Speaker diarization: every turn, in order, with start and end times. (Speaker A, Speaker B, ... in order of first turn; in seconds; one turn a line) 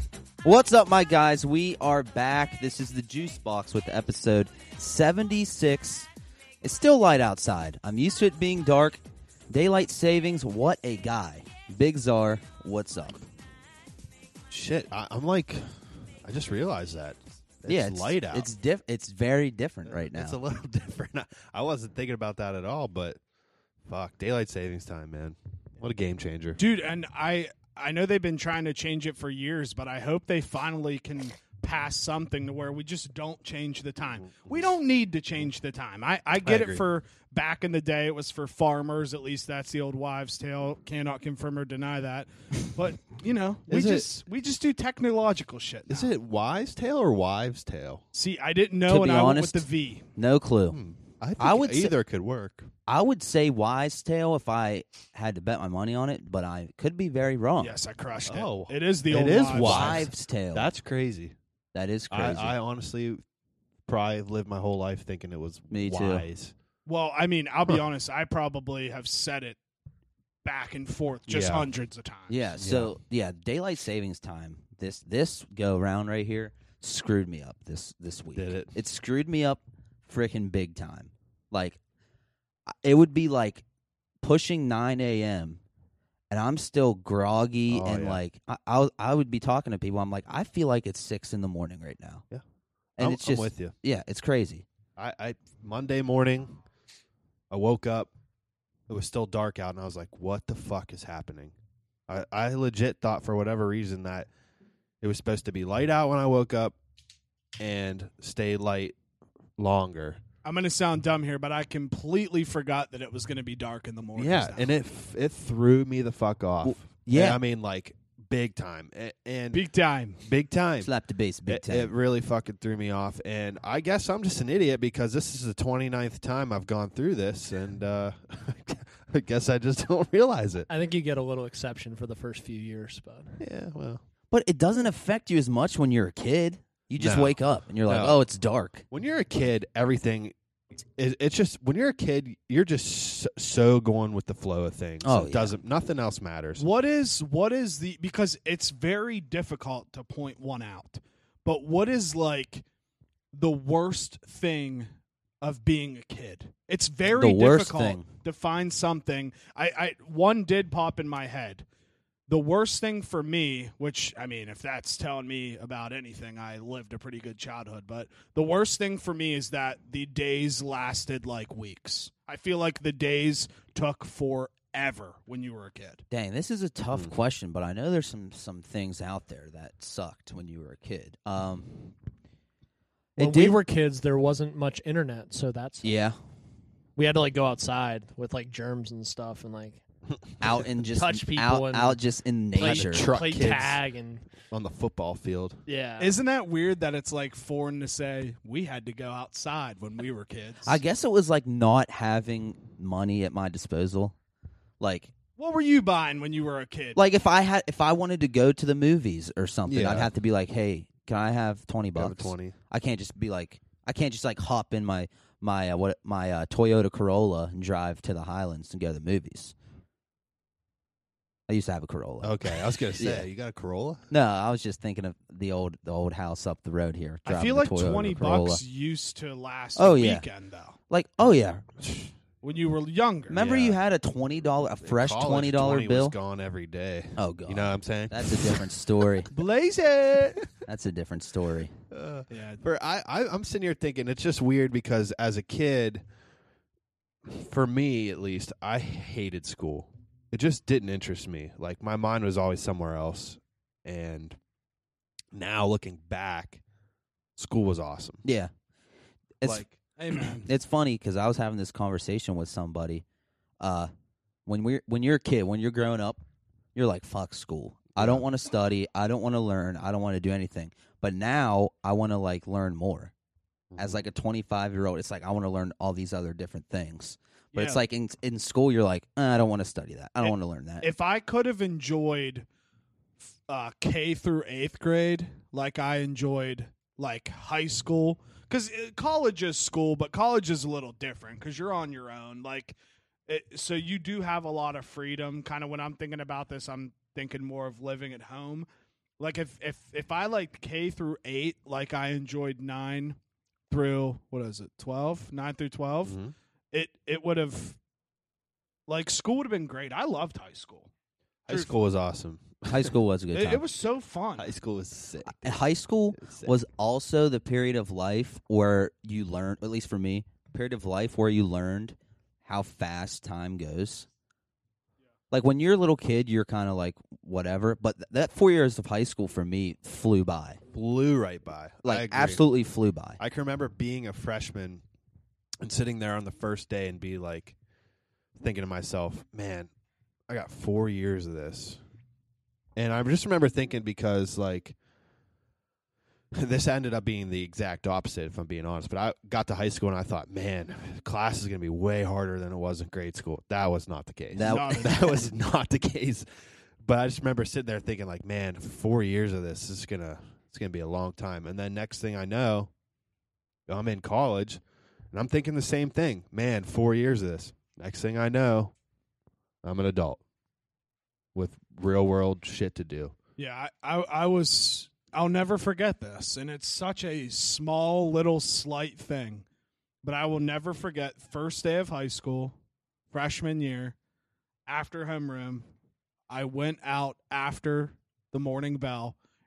Speaker A: 0.4-6.1
Speaker A: 6.6-13.2
Speaker B: 14.5-18.5
Speaker A: 17.7-20.4
Speaker B: 19.9-23.2
Speaker B: 23.9-26.6
Speaker C: 26.6-46.1
Speaker B: 34.2-34.6
Speaker B: 36.4-36.9
Speaker B: 43.7-44.0
Speaker B: 45.9-48.0
Speaker C: 48.1-50.1
Speaker A: 48.9-50.8
Speaker B: 50.7-52.7
Speaker A: 51.4-51.9
Speaker A: 52.9-57.8
Speaker C: 57.6-60.1
Speaker B: 58.2-61.3
Speaker A: 59.6-60.7
Speaker A: 61.7-62.5
Speaker B: 62.1-63.2
Speaker B: 63.9-66.5
Speaker A: 65.7-66.2
Speaker C: 66.8-69.6
Speaker C: 70.4-72.5
Speaker B: 71.3-71.7
Speaker A: 72.3-81.8
Speaker B: 72.6-72.9
Speaker B: 78.3-78.7
Speaker A: 82.7-83.6
Speaker A: 84.2-85.6
Speaker A: 86.3-92.2
Speaker B: 87.7-88.2
Speaker A: 93.0-94.6
Speaker B: 93.0-93.7
Speaker B: 95.0-96.6
Speaker B: 97.5-98.1
Speaker B: 98.9-101.5
Speaker B: 102.1-104.3
Speaker B: 105.0-106.7
Speaker B: 107.6-109.0
Speaker B: 109.6-110.2
Speaker C: 110.4-114.7
Speaker B: 114.2-119.6
Speaker A: 116.6-117.4
Speaker C: 119.5-120.2
Speaker B: 120.2-120.9
Speaker A: 120.8-121.9
Speaker B: 121.5-130.7
Speaker D: 130.7-133.4
Speaker B: 133.4-134.0
Speaker A: 134.3-138.8
Speaker B: 137.0-138.2
Speaker B: 138.9-140.3
Speaker B: 140.9-146.6
Speaker A: 145.0-145.5
Speaker C: 146.6-152.6
Speaker C: 153.3-154.9
Speaker C: 155.4-161.6
Speaker A: 157.1-158.1
Speaker C: 162.3-176.0
Speaker A: 176.1-181.7
Speaker A: 183.2-183.6
Speaker D: 183.2-185.9
Speaker A: 185.8-186.2
Speaker D: 186.9-189.8
Speaker A: 190.4-193.1
Speaker D: 190.9-192.0
Speaker D: 192.6-194.2
Speaker B: 192.6-193.8
Speaker B: 194.5-195.6
Speaker D: 195.7-196.2
Speaker C: 196.0-200.8
Speaker A: 200.6-204.1
Speaker A: 204.8-205.1
Speaker C: 205.4-207.0
Speaker A: 206.9-219.5
Speaker B: 209.7-210.1
Speaker B: 211.9-212.5
Speaker A: 221.5-223.3
Speaker B: 222.2-224.1
Speaker A: 224.1-228.6
Speaker C: 227.2-230.8
Speaker A: 229.8-230.2
Speaker A: 230.9-231.7
Speaker C: 232.4-233.4
Speaker A: 233.3-236.2
Speaker B: 233.3-233.8
Speaker B: 234.8-238.7
Speaker A: 237.2-239.3
Speaker C: 239.3-240.4
Speaker A: 240.7-241.7
Speaker B: 241.9-246.0
Speaker C: 242.3-242.6
Speaker B: 247.2-254.4
Speaker B: 255.3-256.6
Speaker B: 257.4-258.2
Speaker A: 258.2-258.5
Speaker A: 259.4-259.6
Speaker B: 259.4-259.8
Speaker C: 260.0-260.5
Speaker A: 260.4-263.0
Speaker A: 263.6-263.9
Speaker A: 264.4-266.2
Speaker A: 266.7-273.1
Speaker B: 267.9-268.2
Speaker B: 273.7-274.0
Speaker A: 273.8-280.9
Speaker C: 277.5-277.8
Speaker C: 280.2-282.4
Speaker C: 283.2-298.7
Speaker C: 299.2-303.2
Speaker C: 303.7-306.2
Speaker B: 306.0-306.3
Speaker C: 306.7-307.8
Speaker C: 308.9-310.9
Speaker B: 311.5-312.9
Speaker C: 311.5-311.7
Speaker A: 312.7-313.6
Speaker C: 313.3-314.5
Speaker B: 314.4-315.6
Speaker A: 315.2-324.1
Speaker B: 316.1-316.5
Speaker A: 325.3-330.6
Speaker B: 330.7-332.4
Speaker A: 331.8-333.2
Speaker B: 333.2-334.8
Speaker B: 335.6-337.5
Speaker B: 338.4-339.7
Speaker B: 340.3-341.8
Speaker B: 342.8-344.7
Speaker B: 346.3-356.2
Speaker A: 354.3-355.2
Speaker C: 354.4-355.2
Speaker B: 356.8-362.7
Speaker B: 363.7-364.6
Speaker B: 365.1-368.7
Speaker B: 369.6-370.2
Speaker B: 371.3-373.1
Speaker C: 373.4-379.4
Speaker C: 380.0-382.6
Speaker C: 383.1-383.9
Speaker C: 384.7-385.6
Speaker C: 386.3-389.1